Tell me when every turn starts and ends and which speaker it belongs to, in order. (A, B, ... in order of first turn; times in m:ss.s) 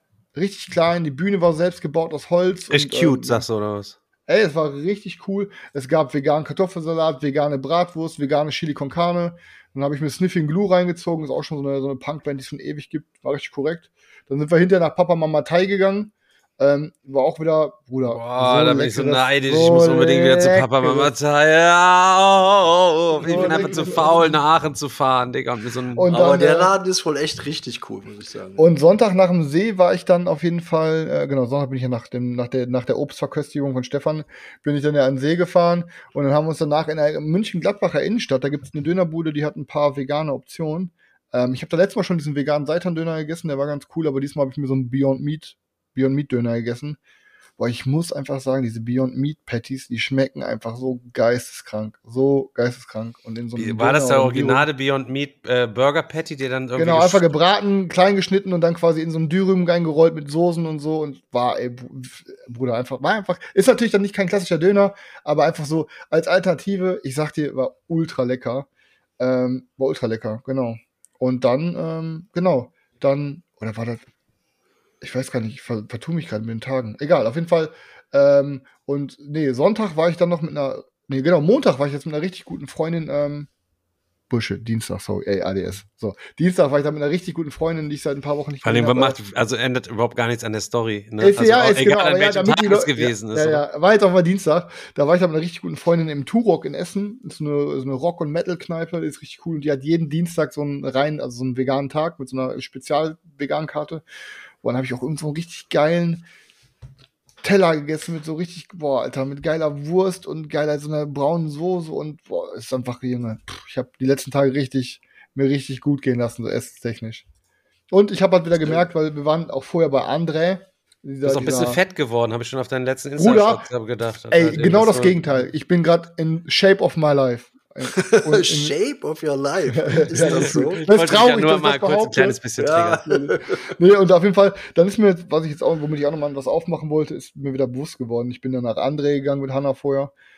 0:00.3-0:03.4 A
0:02.7-0:04.0 B
0:04.3-0:21.1 A
0:18.0-0:26.1 B
0:23.2-0:24.4 A
0:23.3-0:23.7 C
0:25.9-0:26.7 A
0:26.1-0:28.7 C
0:28.6-0:47.0 A
0:47.6-0:54.7 A
0:53.6-0:57.3 B
0:56.8-1:08.7 A
1:09.2-1:14.0 A
1:15.0-1:23.5 A
1:24.3-1:29.2 A
1:28.6-1:33.6 B
1:31.2-1:44.0 A
1:44.6-1:46.2 A
1:47.4-1:57.3 A
1:57.9-2:01.8 A
2:01.2-2:05.2 B
2:03.2-2:03.6 A
2:04.3-2:08.7 A
2:07.9-2:10.8 C
2:09.7-2:12.4 A
2:10.2-2:13.0 B
2:12.6-2:13.7 C
2:13.0-2:20.1 A